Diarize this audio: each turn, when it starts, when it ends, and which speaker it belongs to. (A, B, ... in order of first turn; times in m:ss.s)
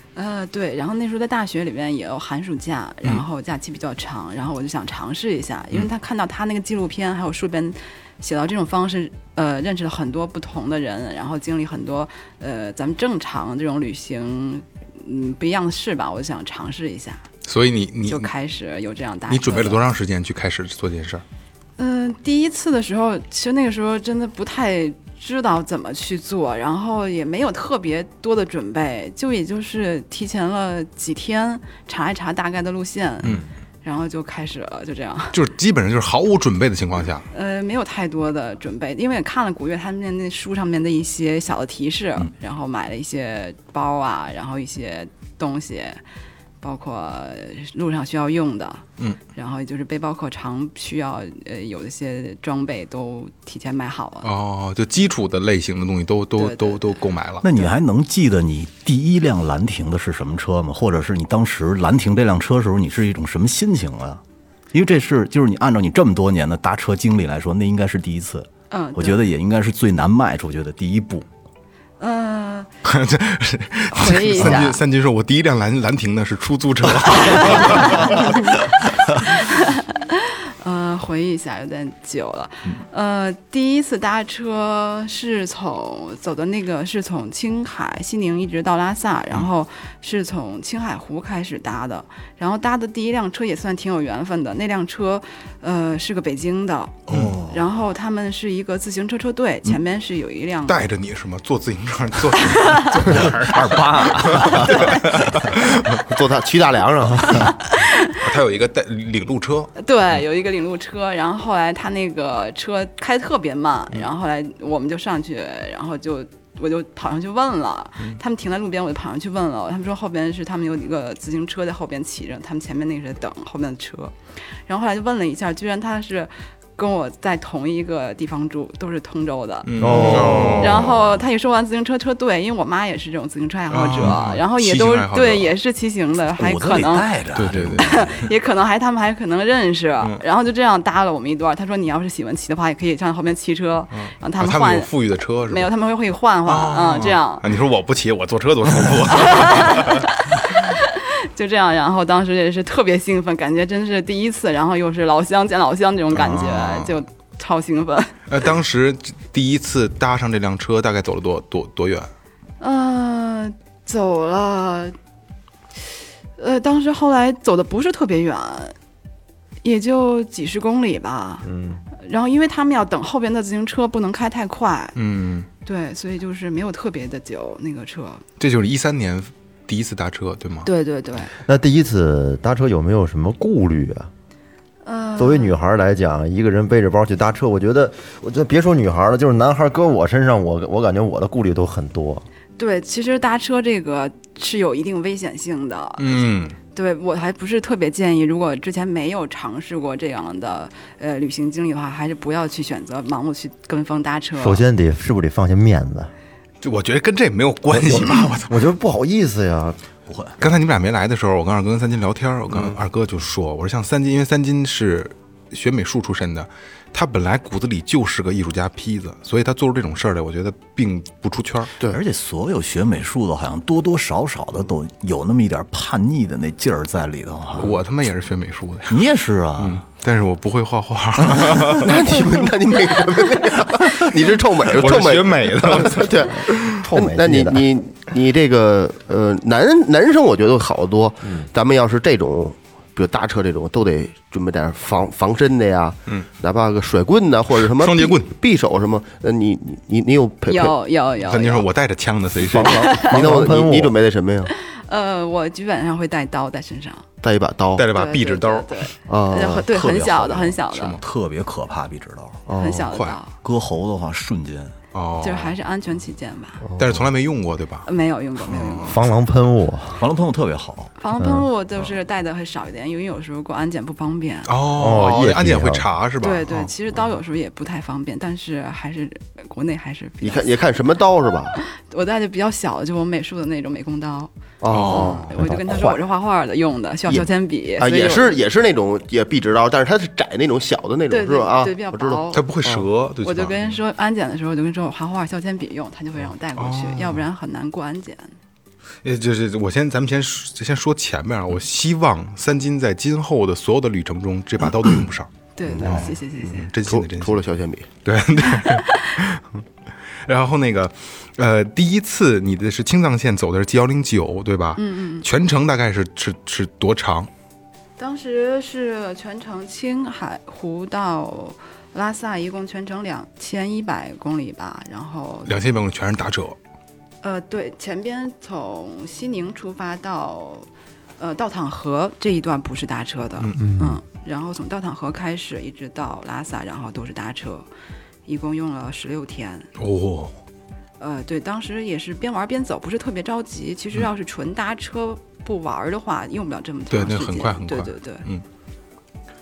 0:00.2-0:17.2 A
0:17.4-0:18.3 B
0:18.1-0:19.8 A
0:19.3-0:21.2 B
0:21.8-0:35.4 A
0:35.3-0:37.3 B
0:37.3-0:46.0 A
0:46.6-0:54.3 A
0:54.2-0:57.5 B
0:56.4-0:57.0 A
0:57.4-1:04.2 C
1:04.7-1:11.3 C
1:08.7-1:09.2 A
1:12.0-1:12.7 A
1:12.8-1:18.6 B
1:13.9-1:14.8 A
1:17.3-1:18.2 A
1:19.2-1:40.9 A
1:37.1-1:37.4 B
1:37.1-1:37.6 C
1:40.7-1:46.0 B
1:42.4-1:43.1 A
1:43.1-1:45.5 C
1:44.5-1:45.2 A
1:46.0-1:47.5 D
1:47.3-1:48.2 A
1:48.2-1:49.7 B
1:49.8-2:04.2 A
2:04.7-2:17.1 A
2:09.7-2:11.0 B
2:09.8-2:11.0 E
2:13.7-2:15.5 B
2:16.4-2:18.2 C
2:17.4-2:18.3 B
2:17.8-2:24.9 A
2:23.9-2:25.7 B
2:25.5-2:27.5 A
2:26.5-2:30.1 B
2:29.1-2:38.2 A
2:36.1-2:37.0 B
2:38.3-2:42.1 B
2:42.6-2:45.0 A
2:46.4-2:48.8 A
2:49.6-2:51.5 A
2:51.4-2:51.8 E
2:52.0-2:55.0 A
2:55.0-2:55.5 B
2:55.6-2:58.2 A
2:58.4-3:00.7 B
3:00.6-3:01.3 A
3:01.4-3:04.1 E
3:04.8-3:05.6 A
3:05.2-3:12.2 E
3:12.6-3:24.6 A
3:16.0-3:16.6 B
3:24.4-3:26.1 E
3:26.6-3:28.6 B
3:27.7-3:29.8 E
3:30.1-3:30.4 C
3:30.4-3:41.7 B
3:41.9-3:47.8 C
3:47.6-3:49.0 B
3:48.9-3:49.8 C
3:49.6-3:52.1 B
3:51.2-3:51.8 C
3:51.8-4:10.7 D
3:54.7-3:56.7 B
3:56.7-3:57.7 E
4:07.6-4:08.3 B
4:10.5-4:11.6 A
4:11.3-4:12.8 B
4:12.4-4:14.0 E
4:12.7-4:13.2 A
4:13.1-4:14.5 D
4:14.5-4:17.0 A
4:17.2-4:17.8 D
4:17.8-4:18.9 B
4:17.9-4:21.0 A
4:19.1-4:19.7 D
4:19.7-4:22.5 C
4:22.5-4:22.9 D
4:22.6-4:23.3 A
4:22.9-4:23.2 B
4:23.4-4:24.8 C
4:24.9-4:25.6 B
4:25.2-4:26.6 A
4:26.6-4:27.0 D
4:26.8-4:27.9 B
4:27.8-4:29.0 A
4:28.5-4:29.0 B
4:28.8-4:30.0 E
4:30.0-4:30.9 C
4:31.0-4:34.5 A
4:31.2-4:31.5 E
4:34.5-4:36.7 B
4:34.7-4:35.8 E
4:36.2-4:40.6 A
4:40.2-4:41.6 D
4:41.6-4:48.3 A
4:44.6-4:45.4 D
4:44.7-4:45.2 B
4:45.4-4:46.0 E
4:47.8-4:52.9 D
4:51.1-4:52.5 A
4:52.3-4:53.8 B
4:53.2-4:58.3 A
4:56.6-4:57.2 B
4:59.0-5:05.3 B
5:05.6-5:06.7 A
5:05.7-5:06.2 D
5:05.8-5:07.4 B
5:06.9-5:07.9 D
5:08.0-5:09.5 B
5:08.5-5:09.2 A
5:10.3-5:17.3 B
5:14.8-5:15.3 A
5:18.0-5:25.6 A
5:25.5-5:26.6 B
5:27.2-5:37.7 A
5:33.6-5:34.0 E
5:38.3-5:39.7 A
5:39.8-5:40.4 B
5:41.0-5:48.3 A
5:46.9-5:48.4 B